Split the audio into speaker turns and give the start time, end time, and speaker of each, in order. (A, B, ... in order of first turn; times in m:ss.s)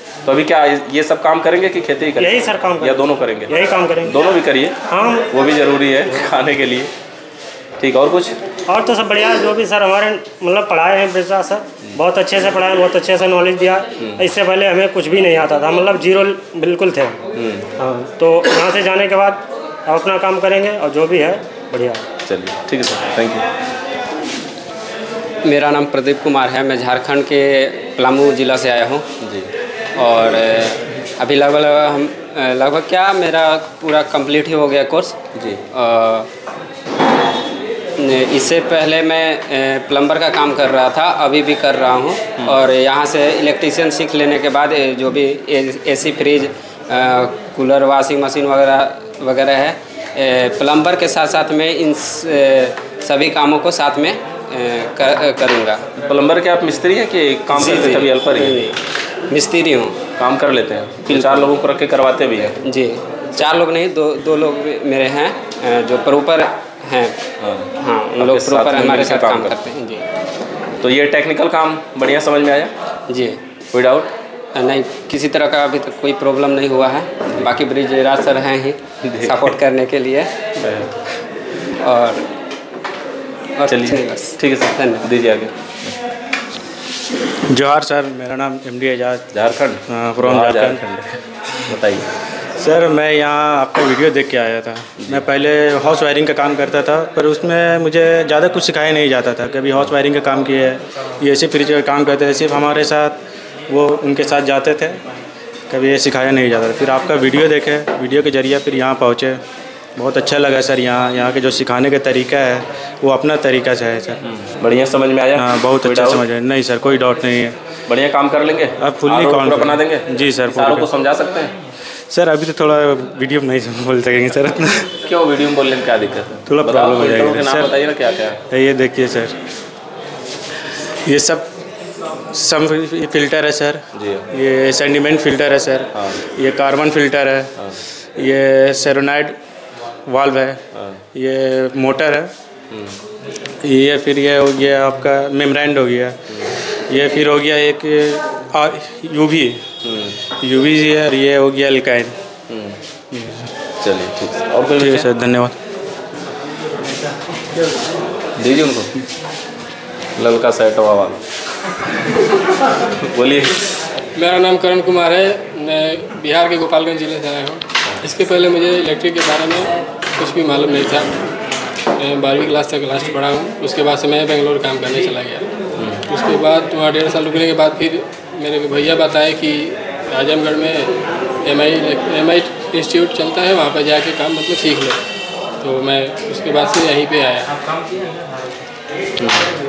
0:00.2-0:03.5 A
0:02.2-0:04.3 B
0:04.1-0:04.8 A
0:04.9-0:05.3 B
0:05.3-0:06.9 A
0:07.8-0:08.4 A
0:08.7-0:17.2 B
0:17.4-0:17.7 A
0:17.8-0:22.1 B
0:22.3-0:23.4 A
0:25.4-0:29.0 C
0:29.2-0:29.5 A
0:30.0-0:35.2 C
0:35.4-0:35.6 A
0:35.7-0:36.3 C
0:38.0-0:55.8 C
0:56.0-0:58.6 A
0:57.5-0:58.7 C
0:59.3-1:00.0 C
1:00.2-1:02.5 A
1:01.1-1:01.5 C
1:02.6-1:07.2 C
1:07.4-1:09.6 A
1:07.8-1:10.0 C
1:10.8-1:12.7 A
1:13.1-1:13.4 C
1:13.7-1:14.1 A
1:14.6-1:20.3 C
1:19.0-1:19.3 A
1:20.6-1:21.0 A
1:21.8-1:22.2 C
1:23.6-1:25.1 C
1:23.7-1:25.5 A
1:27.5-1:29.3 D
1:29.3-1:31.2 A
1:29.9-1:30.8 D
1:31.7-1:32.0 A
1:32.6-1:43.2 D
1:43.7-1:45.0 D
1:45.7-1:49.4 D
1:50.0-1:54.2 D
1:54.3-1:56.2 A
1:55.4-1:57.6 D
1:57.9-2:01.5 A
1:58.8-2:00.9 D
2:02.1-2:04.9 D
2:05.0-2:08.4 A
2:06.5-2:07.7 D
2:08.5-2:09.4 D
2:11.1-2:11.5 D
2:12.3-2:17.6 D
2:14.0-2:14.2 A
2:15.9-2:16.2 A
2:18.2-2:19.4 D
2:20.1-2:22.3 D
2:20.8-2:21.0 A
2:22.7-2:23.0 A
2:23.6-2:26.2 D
2:26.9-2:29.6 D
2:29.8-2:30.2 A
2:30.3-2:32.2 D
2:32.5-2:32.8 A
2:33.1-2:33.5 D
2:33.8-2:35.1 A
2:34.8-2:35.6 D
2:38.4-2:38.9 A
2:40.2-2:41.2 A
2:43.0-2:43.5 A
2:44.2-2:51.2 E
2:52.0-2:55.5 E
2:56.1-3:00.9 E
3:01.4-3:05.0 E
3:05.6-3:07.5 E